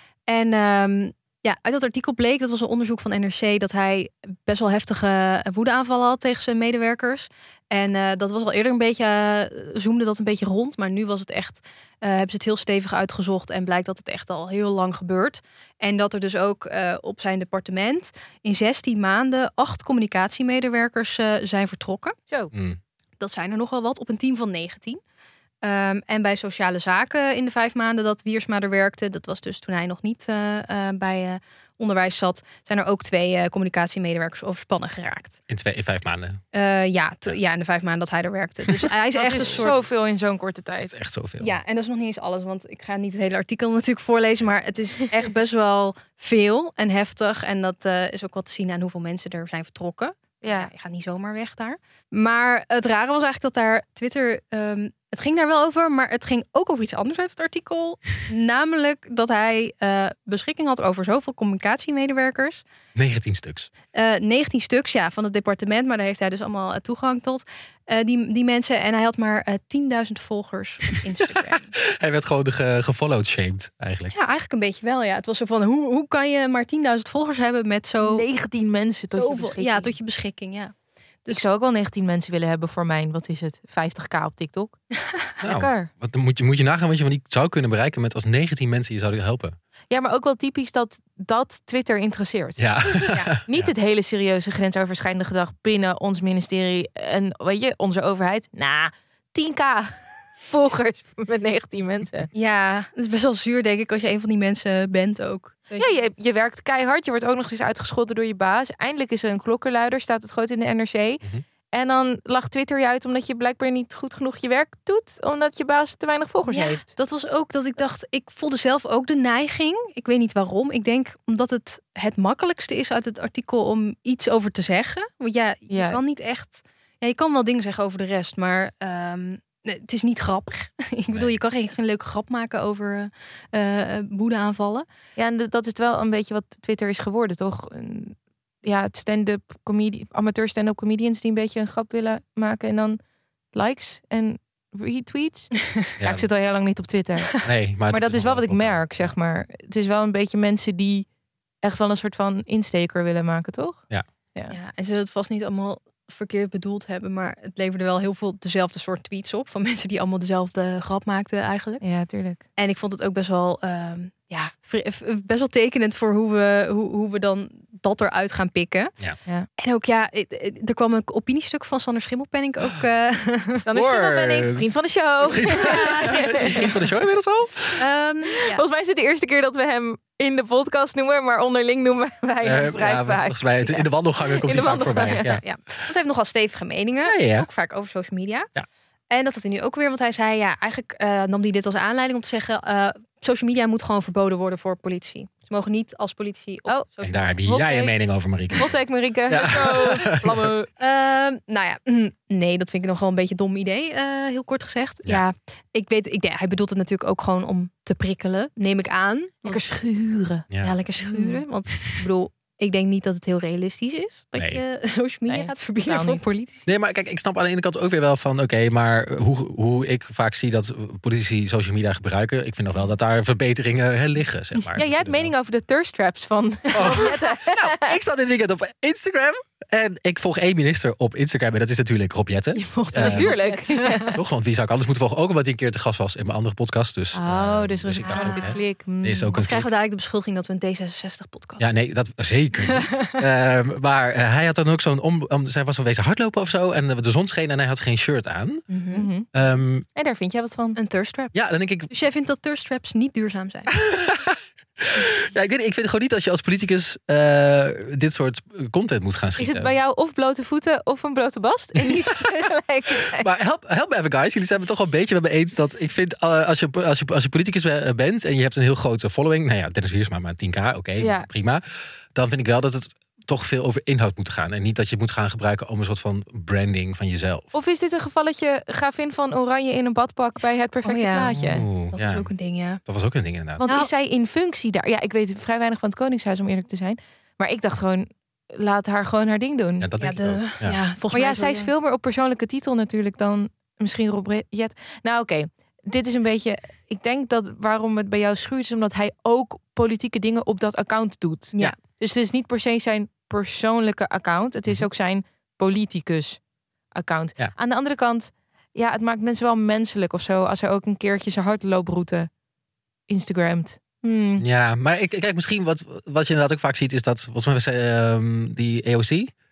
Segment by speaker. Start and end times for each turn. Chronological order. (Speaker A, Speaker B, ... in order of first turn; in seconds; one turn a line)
Speaker A: 0.3-22.1
Speaker B: 22.5-22.8
Speaker A: 23.2-25.0
Speaker A: 25.6-35.4
Speaker B: 35.5-36.4
Speaker A: 36.5-39.8
Speaker C: 39.1-40.9
Speaker B: 40.8-41.6
Speaker A: 41.4-62.6
Speaker C: 50.4-50.7
Speaker B: 62.9-63.7
Speaker A: 63.9-71.7
Speaker B: 71.3-74.1
Speaker A: 74.1-78.2
Speaker C: 78.0-79.9
Speaker A: 79.2-80.7
Speaker C: 81.3-84.8
Speaker B: 85.4-89.6
Speaker C: 85.4-85.9
Speaker C: 89.9-102.3
Speaker B: 92.6-93.7
Speaker A: 102.3-106.0
Speaker C: 105.8-116.9
Speaker A: 116.5-134.9
Speaker C: 125.7-126.0
Speaker C: 135.2-143.0
Speaker C: 143.5-147.3
Speaker B: 146.0-146.3
Speaker B: 147.4-149.1
Speaker C: 147.9-151.1
Speaker C: 151.6-153.8
Speaker A: 154.5-161.8
Speaker C: 161.8-162.4
Speaker A: 162.6-168.9
Speaker A: 169.6-173.6
Speaker C: 173.6-176.7
Speaker B: 173.7-177.8
Speaker A: 175.4-176.7
Speaker A: 177.8-178.6
Speaker C: 178.4-183.8
Speaker B: 182.4-185.4
Speaker C: 184.4-185.3
Speaker A: 184.8-188.5
Speaker B: 187.0-187.5
Speaker A: 189.1-197.2
Speaker B: 197.0-198.7
Speaker C: 197.4-197.9
Speaker C: 198.5-200.7
Speaker B: 199.3-200.5
Speaker A: 200.8-209.6
Speaker C: 209.4-210.4
Speaker A: 210.6-216.7
Speaker C: 211.0-211.4
Speaker B: 214.4-214.6
Speaker C: 215.3-216.2
Speaker B: 216.7-225.3
Speaker C: 224.8-227.9
Speaker B: 226.7-233.3
Speaker A: 232.5-234.2
Speaker C: 232.9-234.2
Speaker B: 234.1-239.7
Speaker C: 237.1-239.4
Speaker A: 238.0-238.6
Speaker A: 239.4-241.6
Speaker B: 241.6-248.7
Speaker A: 242.7-243.0
Speaker A: 248.7-249.1
Speaker C: 248.9-249.3
Speaker B: 249.3-249.8
Speaker C: 249.9-250.8
Speaker A: 250.8-251.3
Speaker B: 251.3-251.9
Speaker A: 251.9-253.7
Speaker B: 253.8-259.7
Speaker C: 259.4-263.3
Speaker B: 261.8-262.3
Speaker B: 263.0-277.5
Speaker C: 271.0-271.3
Speaker C: 277.5-281.6
Speaker A: 280.8-281.3
Speaker B: 281.3-282.3
Speaker A: 281.9-282.8
Speaker B: 282.8-283.6
Speaker C: 283.6-289.9
Speaker B: 289.8-290.8
Speaker A: 290.0-291.7
Speaker C: 291.1-306.4
Speaker C: 306.9-312.3
Speaker C: 313.1-314.4
Speaker B: 314.4-319.3